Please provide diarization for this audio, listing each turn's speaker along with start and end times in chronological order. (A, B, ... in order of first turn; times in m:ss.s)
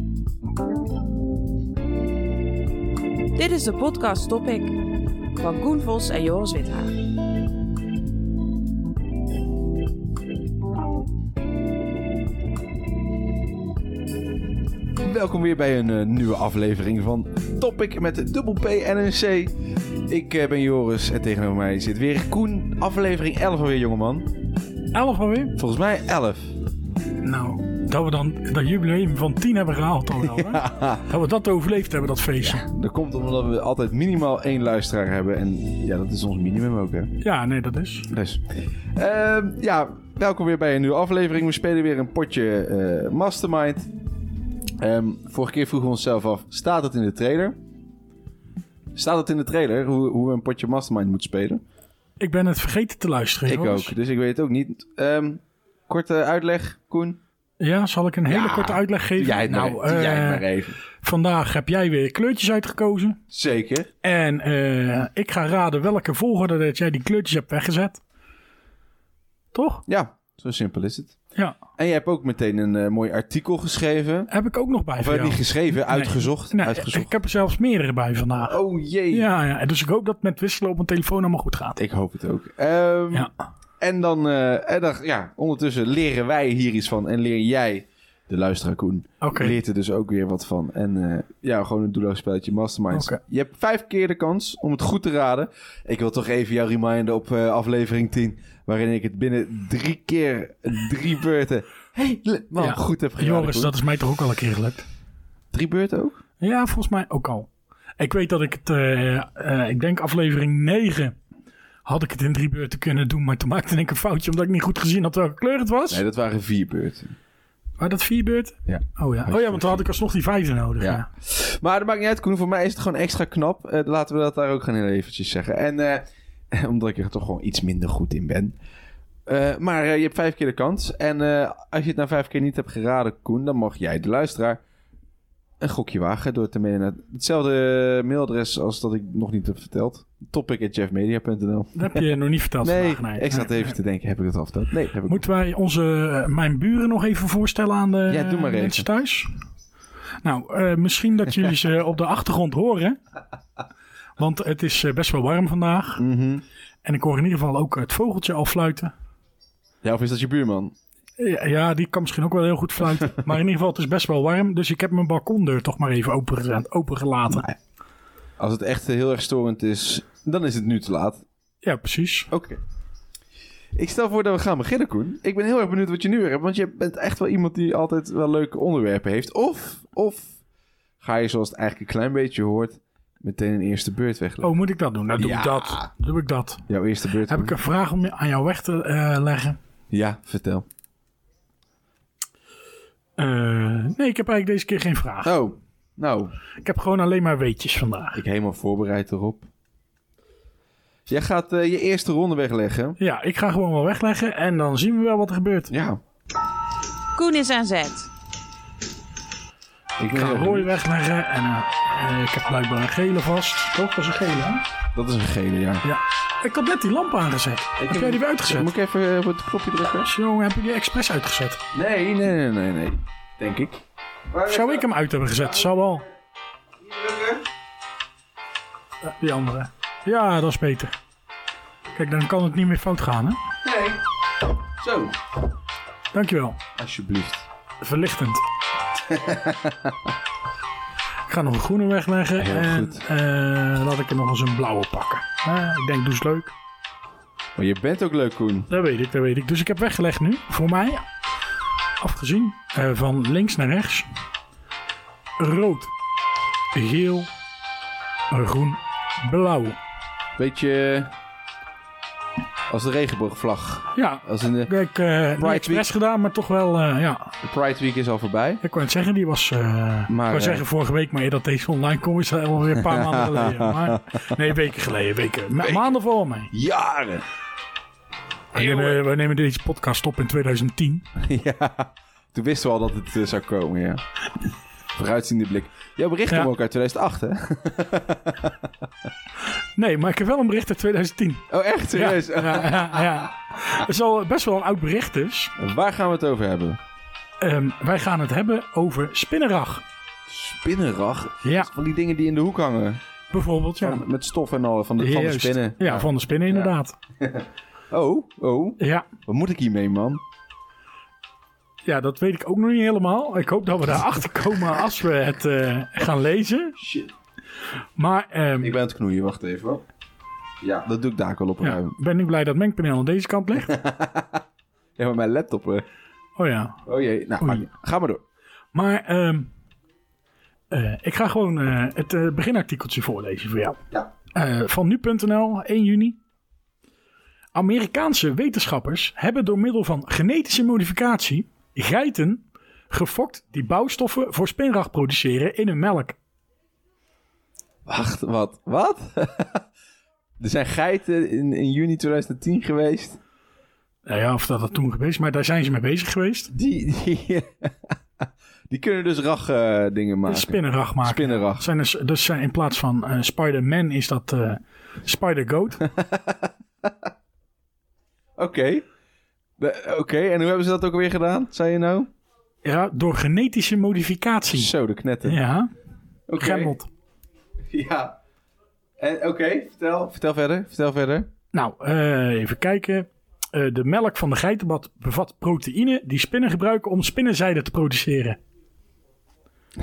0:03.4-0:04.8 A
0:05.4-0:07.0 A
0:15.0-0:19.6 B
0:20.1-0:24.3 B
0:24.9-0:25.6 C
0:25.6-0:26.6 B
0:27.2-0:32.7 C
0:30.2-0:31.0 B
0:32.4-0:37.1 B
0:37.2-0:38.1 C
0:38.1-0:43.9 B
0:44.8-0:47.6 B
0:49.0-0:51.6 B
0:52.2-0:54.0 C
0:53.5-0:57.2 B
0:57.6-1:00.5 C
0:58.3-1:00.8 B
1:01.0-1:03.2 C
1:03.3-1:03.9 B
1:04.0-1:08.0 C
1:09.5-1:09.8 C
1:09.9-1:11.2 B
1:11.8-1:14.3 B
1:14.3-1:18.6 C
1:15.0-1:17.1 B
1:18.4-1:19.3 B
1:19.1-1:21.8 C
1:21.8-1:43.7 B
1:29.2-1:29.6 C
1:32.9-1:33.2 C
1:42.6-1:44.9 C
1:45.5-1:46.2 B
1:46.4-1:51.2 C
1:51.8-1:56.0 C
1:55.9-1:57.2 B
1:57.8-2:01.1 C
1:58.7-1:59.9 B
2:00.8-2:08.6 B
2:09.3-2:14.6 B
2:15.6-2:22.1 B
2:21.8-2:23.8 C
2:22.6-2:25.3 B
2:25.0-2:29.3 C
2:28.1-2:28.9 B
2:30.2-2:33.0 C
2:34.2-2:36.0 C
2:36.0-2:36.4 B
2:36.8-2:38.9 C
2:39.8-2:40.7 B
2:41.2-2:47.5 C
2:48.4-2:51.2 B
2:51.6-2:52.3 C
2:52.3-2:52.6 B
2:53.8-3:00.3 B
3:01.0-3:04.6 B
3:04.4-3:06.6 C
3:05.2-3:05.9 B
3:06.7-3:07.6 B
3:07.3-3:09.6 C
3:09.9-3:10.6 B
3:13.2-3:15.4 C
3:15.2-3:16.4 B
3:16.6-3:18.2 C
3:18.1-3:19.5 B
3:21.1-3:23.0 B
3:23.0-3:25.7 C
3:25.7-3:26.0 B
3:27.2-3:28.1 A
3:30.0-3:30.7 B
3:30.1-3:34.6 C
3:35.0-3:35.8 B
3:35.8-3:38.7 C
3:37.8-3:40.1 B
3:40.0-3:41.6 C
3:41.7-3:43.8 B
3:44.3-3:44.9 B
3:44.5-3:46.1 C
3:46.8-3:47.5 B
3:49.1-3:51.0 C
3:51.9-3:53.4 C
3:53.6-3:54.0 B
3:54.8-3:55.2 B
3:56.1-3:56.6 C
3:56.8-3:57.5 B
3:57.8-3:58.4 C
3:59.1-3:59.9 B
4:01.3-4:06.5 C
4:02.4-4:03.1 B
4:07.6-4:08.7 B
4:08.7-4:11.1 C
4:12.0-4:14.1 C
4:15.4-4:15.9 C
4:16.7-4:17.3 C
4:18.3-4:19.8 C
4:20.4-4:21.1 B
4:22.7-4:24.7 B
4:23.9-4:27.3 C
4:25.4-4:25.9 B
4:27.4-4:28.6 B
4:28.6-4:36.5 C
4:30.1-4:30.6 B
4:32.8-4:34.0 B
4:35.6-4:35.9 B
4:36.5-4:37.2 B
4:38.5-4:39.0 B
4:38.5-4:41.0 C
4:41.2-4:44.0 B
4:45.0-4:48.6 B
4:49.8-4:55.5 C
4:51.5-4:53.1 B
4:55.6-4:56.8 B
4:57.4-4:59.8 C
5:00.3-5:03.0 B
5:01.4-5:01.7 C
5:03.3-5:04.0 C
5:03.8-5:10.2 B
5:05.0-5:07.0 C
5:08.8-5:09.1 C
5:11.8-5:16.8 C
5:16.8-5:17.1 B
5:18.0-5:18.8 C
5:18.6-5:19.8 B
5:20.6-5:21.9 B
5:21.6-5:23.8 C
5:23.6-5:24.4 B
5:25.0-5:25.8 B
5:26.4-5:26.8 C
5:26.9-5:28.2 B
5:27.4-5:27.7 C
5:28.7-5:29.5 C
5:30.7-5:33.8 C
5:34.3-5:36.2 C
5:37.5-5:46.2 C
5:47.9-5:49.6 B
5:50.4-5:53.2 B
5:54.0-5:56.5 C
5:56.5-5:57.9 B
5:58.7-6:01.7 B
6:00.3-6:05.9 C
6:08.4-6:08.8 B
6:09.6-6:12.1 B
6:12.6-6:14.7 C
6:14.5-6:15.4 B
6:15.2-6:15.7 C
6:16.3-6:16.8 B
6:16.4-6:16.9 C
6:17.7-6:18.2 B
6:19.0-6:21.3 B
6:21.5-6:28.4 C